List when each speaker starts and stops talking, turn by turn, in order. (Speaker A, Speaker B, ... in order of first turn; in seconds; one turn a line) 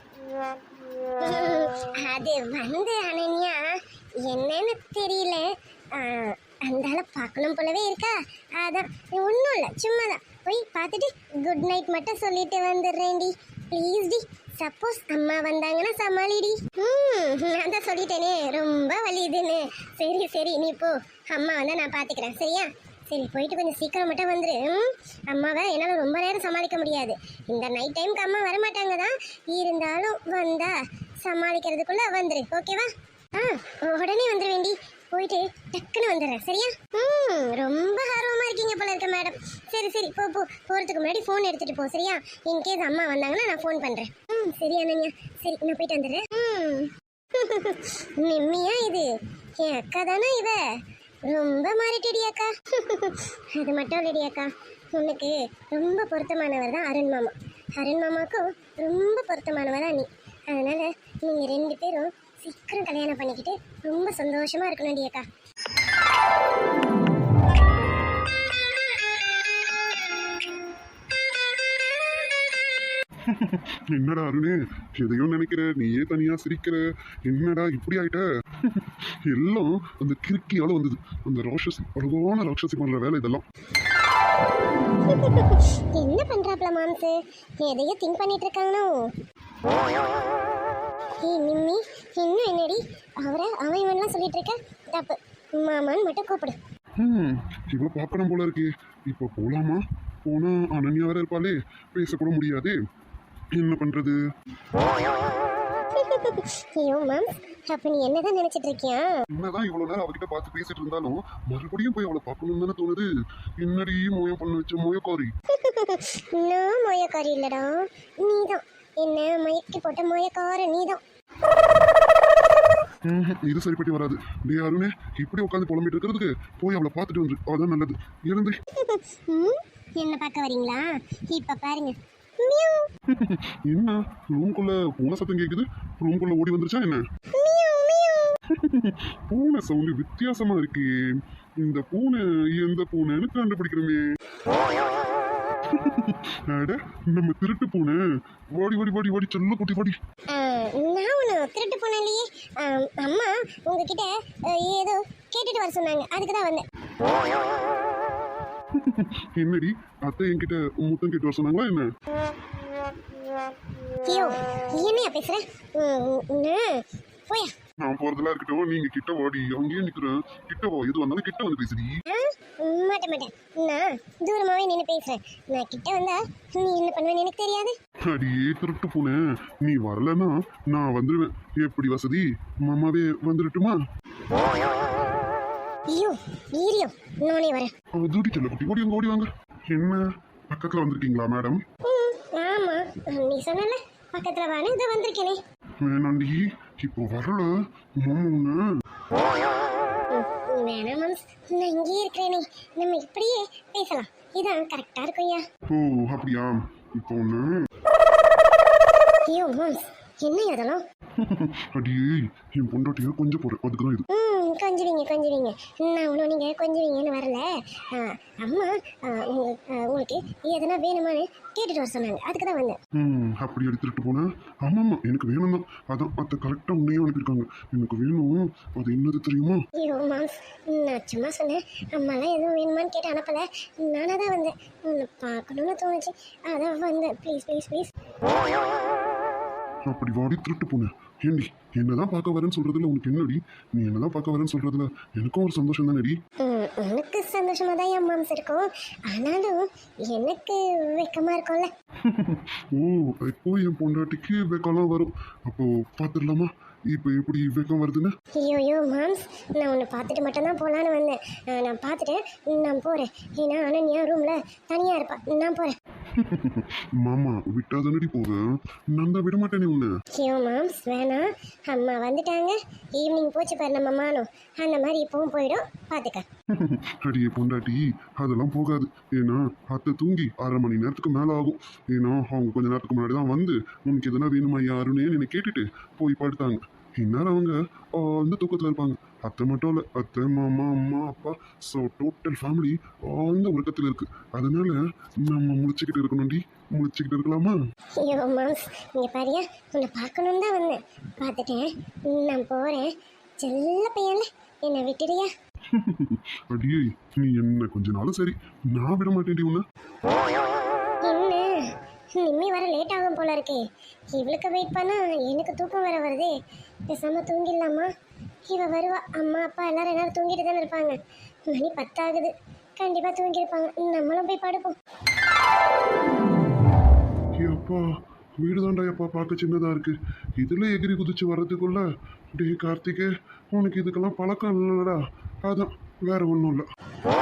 Speaker A: 1.2-49.1
Speaker A: 49.6-50.6
Speaker A: 51.3-65.3
Speaker B: 73.2-83.4
Speaker A: 85.1-89.1
Speaker A: 91.2-96.6
Speaker B: 97.0-102.8
Speaker B: 103.6-104.2
Speaker A: 106.0-109.2
Speaker B: 109.3-113.1
Speaker B: 113.6-115.3
Speaker A: 115.5-121.0
Speaker B: 123.0-128.6
Speaker A: 128.8-132.9
Speaker B: 133.1-137.0
Speaker A: 137.3-138.4
Speaker B: 138.5-140.9
Speaker B: 141.6-144.0
Speaker B: 145.7-148.0
Speaker B: 148.6-150.0
Speaker A: 150.3-156.6
Speaker B: 158.8-161.9
Speaker A: 164.1-167.5
Speaker B: 167.8-172.0
Speaker A: 172.1-177.8
Speaker B: 178.1-183.8
Speaker A: 185.9-187.7
Speaker B: 187.9-191.6
Speaker A: 191.9-195.4
Speaker B: 195.8-198.6
Speaker A: 200.1-205.4
Speaker B: 205.7-207.7
Speaker A: 209.3-210.8
Speaker B: 211.2-214.1
Speaker A: 214.1-222.8
Speaker B: 222.9-229.6
Speaker A: 229.8-237.9
Speaker B: 239.9-246.2
Speaker A: 246.4-251.7
Speaker B: 252.0-258.1
Speaker A: 258.4-265.8
Speaker B: 266.1-268.4
Speaker B: 268.9-270.0
Speaker A: 270.1-276.3
Speaker B: 276.5-297.6
Speaker A: 298.0-302.9
Speaker A: 303.4-305.3
Speaker B: 305.7-309.6
Speaker A: 311.0-316.3
Speaker A: 316.9-317.9
Speaker A: 318.5-321.0
Speaker A: 321.5-324.8
Speaker B: 327.4-327.9
Speaker B: 328.4-336.7